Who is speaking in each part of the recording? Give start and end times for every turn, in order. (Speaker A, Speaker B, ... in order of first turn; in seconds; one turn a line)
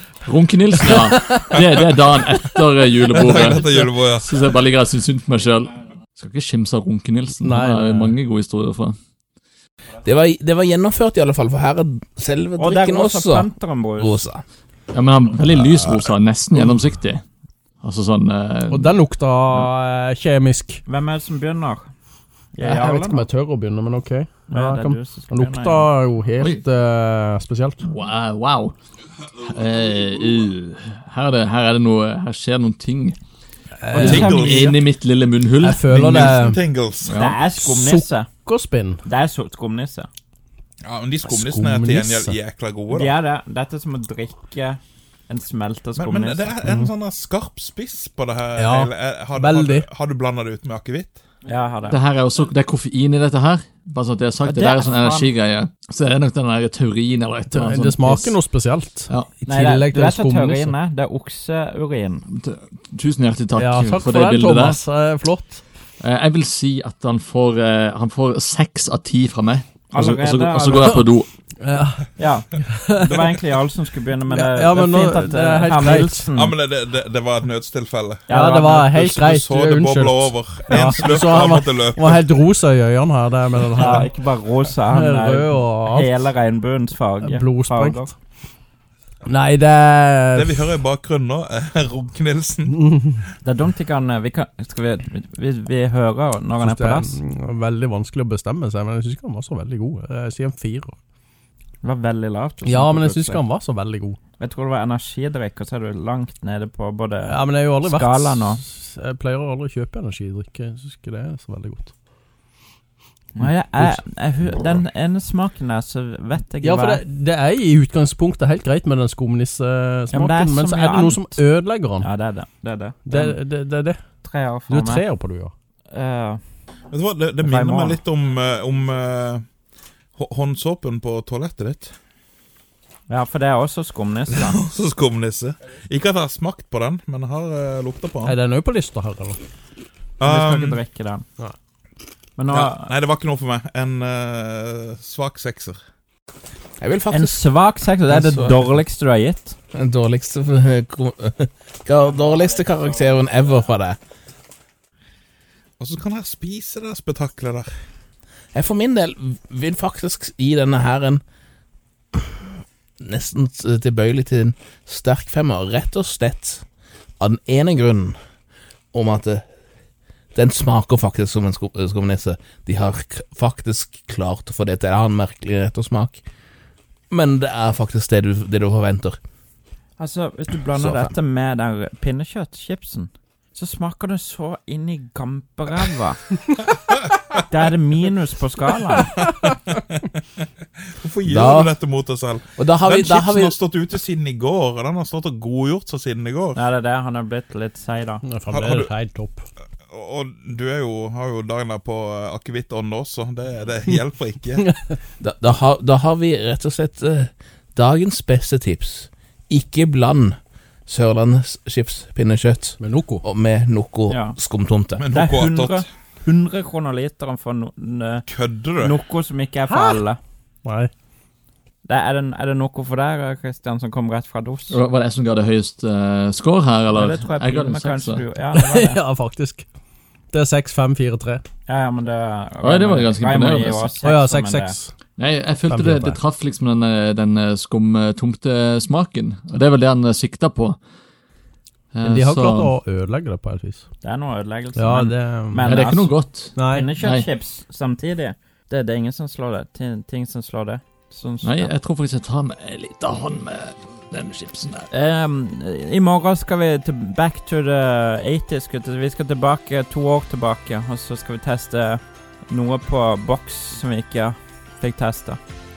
Speaker A: 0.2-9.0
Speaker B: 0.8-1.6
Speaker C: 3.2-4.3
Speaker B: 7.4-8.2
Speaker D: 10.0-14.4
Speaker E: 12.6-14.2
Speaker A: 14.9-17.2
Speaker A: 17.8-18.9
Speaker B: 18.7-20.8
Speaker E: 20.9-21.9
Speaker E: 22.5-23.3
Speaker B: 22.6-27.8
Speaker E: 24.5-25.9
Speaker A: 27.9-28.7
Speaker A: 29.4-33.2
Speaker B: 33.8-34.6
Speaker C: 33.9-34.8
Speaker A: 33.9-35.9
Speaker E: 34.0-34.8
Speaker B: 35.6-36.6
Speaker C: 35.9-37.2
Speaker A: 37.0-37.4
Speaker E: 37.1-38.3
Speaker B: 37.5-39.0
Speaker E: 39.0-40.1
Speaker C: 40.8-43.1
Speaker B: 41.2-42.4
Speaker E: 42.9-46.6
Speaker C: 46.0-51.2
Speaker B: 46.6-46.9
Speaker B: 48.5-49.9
Speaker E: 51.4-52.0
Speaker A: 51.9-58.4
Speaker E: 54.4-55.3
Speaker B: 57.5-60.8
Speaker E: 59.5-62.2
Speaker A: 62.3-64.8
Speaker B: 63.5-65.6
Speaker A: 66.0-71.3
Speaker E: 69.9-71.0
Speaker B: 71.6-73.4
Speaker E: 72.2-76.5
Speaker B: 74.3-76.3
Speaker C: 76.3-82.3
Speaker E: 78.3-78.9
Speaker B: 78.3-84.1
Speaker E: 83.7-88.1
Speaker B: 84.9-86.2
Speaker B: 87.2-88.1
Speaker B: 89.2-90.8
Speaker C: 90.3-92.8
Speaker B: 92.7-93.2
Speaker E: 93.4-97.2
Speaker B: 96.6-101.0
Speaker E: 101.8-103.4
Speaker B: 102.6-104.2
Speaker E: 104.4-108.6
Speaker B: 107.2-111.9
Speaker E: 113.3-117.0
Speaker B: 113.4-114.0
Speaker B: 116.6-122.1
Speaker E: 120.1-121.4
Speaker E: 122.0-123.4
Speaker B: 123.0-124.0
Speaker E: 124.2-125.0
Speaker B: 124.7-125.5
Speaker E: 125.9-126.4
Speaker C: 126.9-129.4
Speaker E: 127.4-128.0
Speaker C: 130.1-131.9
Speaker E: 133.1-134.6
Speaker C: 134.3-138.3
Speaker B: 138.2-139.4
Speaker C: 140.2-140.8
Speaker E: 140.2-141.2
Speaker E: 142.4-142.9
Speaker C: 142.5-145.8
Speaker D: 146.8-147.4
Speaker E: 147.1-149.6
Speaker D: 148.1-148.7
Speaker D: 149.7-154.0
Speaker E: 152.1-153.2
Speaker C: 155.8-157.7
Speaker D: 158.5-161.2
Speaker D: 163.0-166.6
Speaker D: 167.2-168.2
Speaker D: 168.9-169.4
Speaker D: 170.3-176.2
Speaker D: 177.1-179.2
Speaker E: 180.0-186.2
Speaker D: 180.7-181.1
Speaker E: 187.5-189.2
Speaker C: 191.0-196.6
Speaker D: 191.3-191.7
Speaker D: 192.6-193.5
Speaker E: 196.5-198.2
Speaker B: 198.2-199.5
Speaker C: 198.5-198.9
Speaker C: 199.9-204.6
Speaker D: 205.2-215.0
Speaker B: 212.8-213.2
Speaker E: 214.1-214.3
Speaker C: 215.0-215.8
Speaker E: 215.1-218.2
Speaker C: 218.3-219.0
Speaker E: 218.8-220.2
Speaker B: 219.7-220.0
Speaker B: 220.6-220.9
Speaker E: 221.8-224.8
Speaker A: 224.7-228.2
Speaker E: 226.9-229.0
Speaker B: 228.5-229.7
Speaker B: 230.3-231.4
Speaker E: 231.7-234.8
Speaker A: 232.6-233.9
Speaker B: 234.0-234.9
Speaker A: 235.2-240.8
Speaker B: 235.7-236.2
Speaker A: 241.9-242.7
Speaker B: 242.0-243.9
Speaker E: 244.0-251.7
Speaker B: 244.7-245.6
Speaker A: 245.6-247.3
Speaker B: 246.6-246.9
Speaker A: 251.4-254.9
Speaker E: 254.9-265.4